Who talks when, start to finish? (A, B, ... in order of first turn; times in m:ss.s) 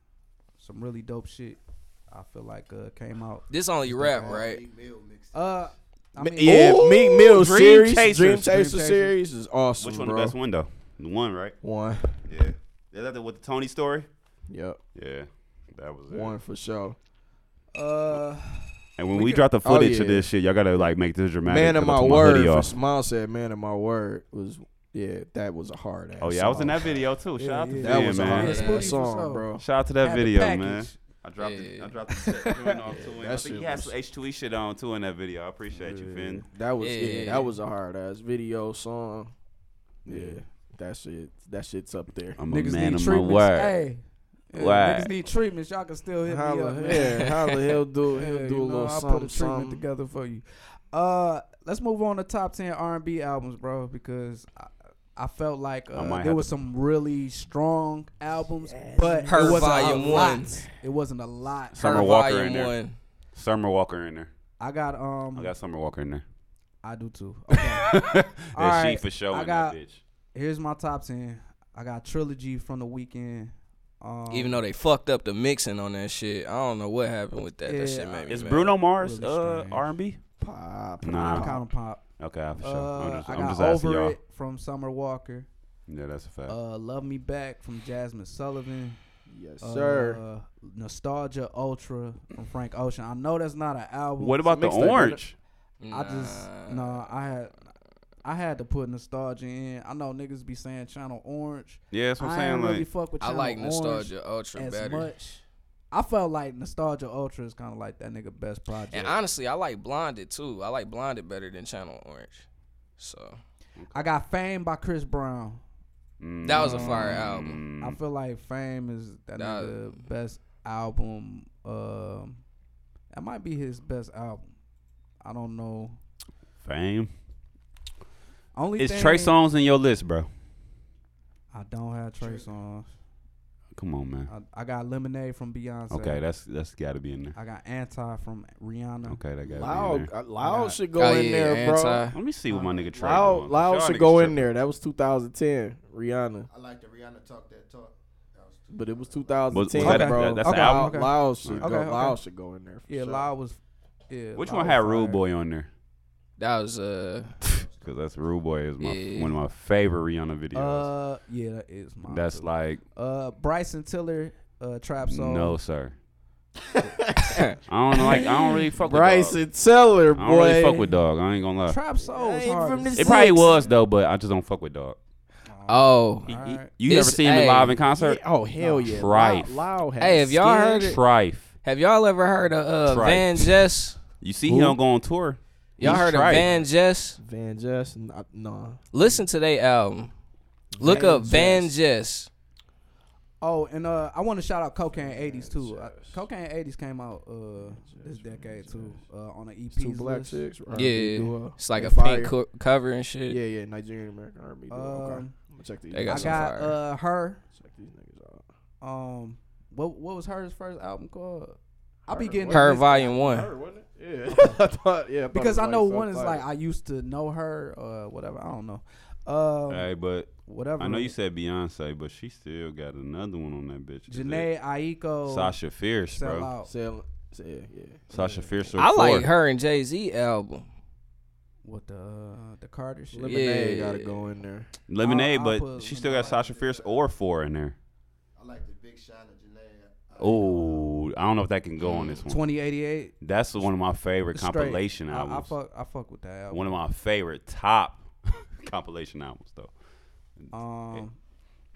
0:00.6-0:04.4 A
0:03.5-0:04.6 B
0:04.0-0:05.7 C
0:05.3-0:06.8 A
0:06.2-0:10.4 D
0:06.4-0:08.6 E
0:08.4-0:09.1 A
0:09.8-0:11.6 E
0:11.6-0:12.2 D
0:12.2-0:14.1 E
0:14.5-0:14.8 D
0:14.9-0:16.3 E
0:16.1-0:17.0 D
0:17.7-0:19.4 A
0:19.0-0:22.7 E
0:19.6-0:20.3 D
0:21.4-0:27.0 D
0:26.2-0:28.7 E
0:27.4-0:29.5 A
0:27.8-0:29.6 D
0:28.4-0:28.9 B
0:29.6-0:36.5 E
0:30.0-0:31.0 A
0:31.4-0:31.9 B
0:32.1-0:32.7 A
0:32.8-0:33.9 D
0:35.8-0:39.3 D
0:36.8-0:37.5 B
0:40.0-0:42.4 D
0:40.1-0:40.4 E
0:42.4-0:43.8 E
0:42.5-0:47.3 A
0:44.5-0:45.1 E
0:46.2-0:49.8 D
0:46.9-0:47.6 B
0:48.1-1:02.1 A
0:55.9-0:56.5 E
0:58.6-1:00.6 D
0:59.3-1:00.5 B
1:01.7-1:02.7 E
1:01.8-1:03.0 B
1:03.3-1:04.3 E
1:04.6-1:05.5 A
1:05.3-1:06.2 E
1:06.8-1:08.0 A
1:07.5-1:10.0 E
1:08.5-1:09.8 A
1:10.3-1:14.6 A
1:14.3-1:18.8 B
1:17.6-1:19.9 A
1:18.3-1:20.2 E
1:20.4-1:21.7 D
1:21.0-1:21.6 E
1:21.2-1:22.0 A
1:22.2-1:24.2 E
1:22.6-1:25.5 A
1:25.9-1:26.6 E
1:26.5-1:29.0 A
1:29.3-1:30.2 D
1:29.6-1:34.4 A
1:34.2-1:35.4 E
1:34.5-1:35.2 D
1:35.8-1:36.9 B
1:35.9-1:37.6 A
1:38.2-1:49.2 A
1:41.9-1:42.8 E
1:43.2-1:45.1 B
1:48.9-1:52.4 B
1:53.0-1:53.4 B
1:53.8-1:54.0 E
1:53.9-1:55.6 A
1:56.2-1:58.0 E
1:56.4-1:57.6 B
1:56.6-1:57.2 A
1:57.8-2:02.4 A
1:59.4-2:00.0 B
2:03.1-2:04.5 A
2:05.2-2:06.0 A
2:06.6-2:07.1 E
2:08.5-2:09.4 A
2:08.8-2:10.3 E
2:11.5-2:12.9 A
2:12.2-2:12.5 C
2:13.7-2:14.3 E
2:14.3-2:16.2 A
2:15.9-2:17.3 E
2:17.3-2:19.2 A
2:19.1-2:20.1 E
2:19.4-2:22.1 D
2:20.4-2:20.8 A
2:21.0-2:22.2 B
2:22.1-2:24.5 E
2:22.5-2:22.8 A
2:23.0-2:26.5 D
2:26.5-2:29.6 C
2:28.7-2:33.3 D
2:29.5-2:31.7 E
2:29.8-2:32.2 A
2:32.9-2:33.6 A
2:34.1-2:35.2 A
2:34.3-2:35.7 E
2:36.4-2:37.4 B
2:37.4-2:37.9 C
2:37.8-2:40.9 E
2:38.8-2:39.3 B
2:40.5-2:45.6 A
2:42.0-2:42.8 E
2:45.0-2:45.9 E
2:46.7-2:47.4 D
2:47.3-2:47.6 B
2:47.7-2:49.4 E
2:47.9-2:51.0 D
2:50.1-2:51.8 E
2:51.6-2:53.4 A
2:52.0-2:53.7 D
2:52.9-2:55.0 E
2:55.5-2:56.7 A
2:55.7-2:56.3 B
2:56.3-2:58.2 E
2:56.8-2:57.8 B
2:57.9-3:00.9 D
2:58.6-2:58.9 A
2:58.8-2:59.6 E
3:00.0-3:01.0 B
3:00.8-3:01.5 E
3:01.6-3:04.0 B
3:02.8-3:03.6 E
3:04.2-3:06.5 E
3:04.5-3:04.8 D
3:05.8-3:07.2 B
3:07.2-3:08.8 D
3:08.9-3:10.1 B
3:09.0-3:09.2 A
3:10.7-3:11.8 D
3:10.8-3:12.3 B
3:10.8-3:11.3 A
3:13.4-3:20.4 A
3:14.9-3:16.2 D
3:17.6-3:19.0 D
3:19.7-3:22.3 D
3:20.7-3:23.4 B
3:23.3-3:26.5 D
3:24.7-3:25.3 A
3:25.9-3:26.8 B
3:26.0-3:27.4 A
3:27.5-3:28.4 D
3:28.8-3:33.0 A
3:32.1-3:36.4 D
3:32.5-3:33.5 B
3:34.3-3:34.6 A
3:35.3-3:39.9 A
3:39.7-3:44.5 E
3:40.4-3:41.1 A
3:44.1-3:45.6 A
3:45.2-3:46.5 E
3:46.1-3:46.7 A
3:46.6-3:48.5 D
3:48.1-3:49.3 E
3:48.8-3:50.6 B
3:51.6-3:53.5 A
3:53.1-3:54.7 D
3:53.3-3:54.2 B
3:54.9-3:57.8 E
3:55.0-3:56.2 A
3:56.0-3:57.0 C
3:58.4-4:01.0 C
4:00.2-4:02.4 E
4:01.8-4:02.2 B
4:02.3-4:03.7 A
4:03.2-4:05.5 E
4:04.3-4:06.8 A
4:06.5-4:09.7 E
4:10.4-4:11.0 E
4:10.5-4:11.2 A